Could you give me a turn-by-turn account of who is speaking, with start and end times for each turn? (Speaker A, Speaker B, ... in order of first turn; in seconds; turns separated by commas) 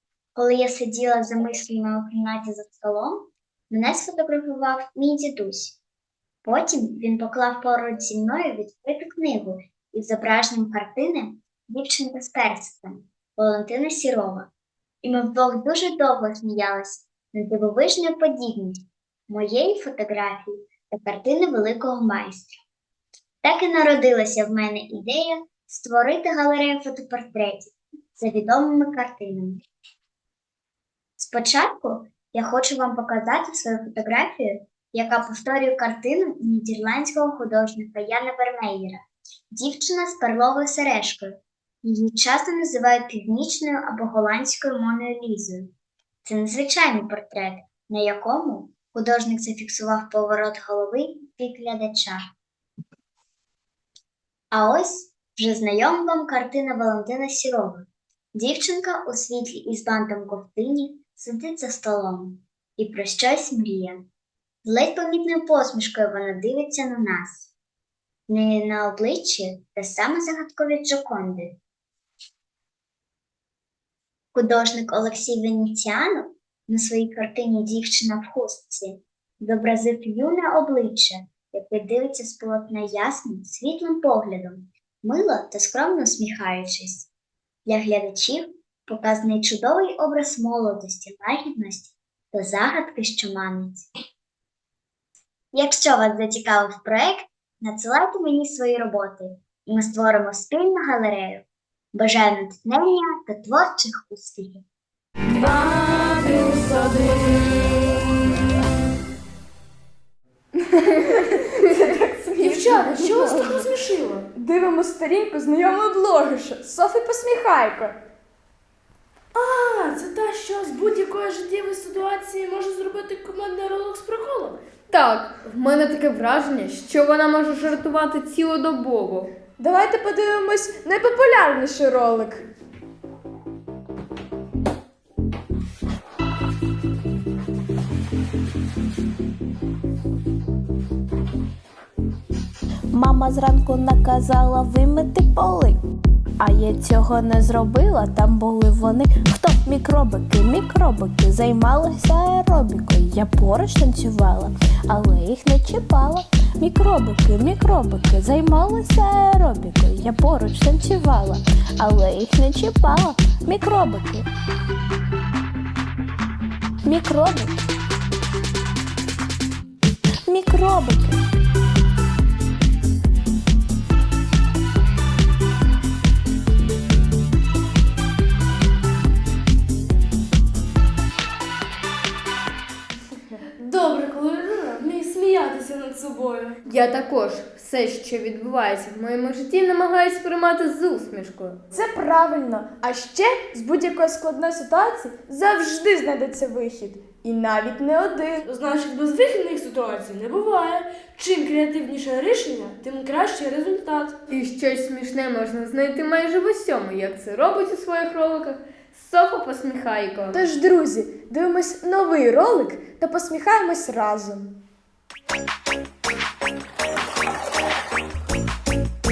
Speaker A: 0.3-5.8, Speaker A: 6.4-14.5, Speaker A: 15.0-22.6, Speaker A: 23.4-29.6, Speaker A: 31.2-45.7, Speaker A: 46.2-52.2, Speaker A: 54.5-64.1, Speaker A: 64.6-67.5, Speaker A: 68.3-71.6, Speaker A: 74.3-87.1, Speaker A: 87.7-93.9, Speaker A: 95.5-104.6, Speaker B: 110.7-113.7, Speaker C: 112.4-114.3, Speaker B: 114.3-118.0, Speaker C: 119.3-124.6, Speaker D: 124.9-129.3, Speaker B: 129.6-132.4, Speaker E: 142.9-145.8, Speaker E: 146.4-164.2, Speaker E: 166.8-167.7, Speaker E: 170.3-171.2, Speaker C: 183.6-186.6, Speaker D: 186.7-191.6, Speaker B: 191.7-198.4, Speaker C: 198.4-204.2, Speaker D: 204.3-210.4, Speaker B: 210.3-214.6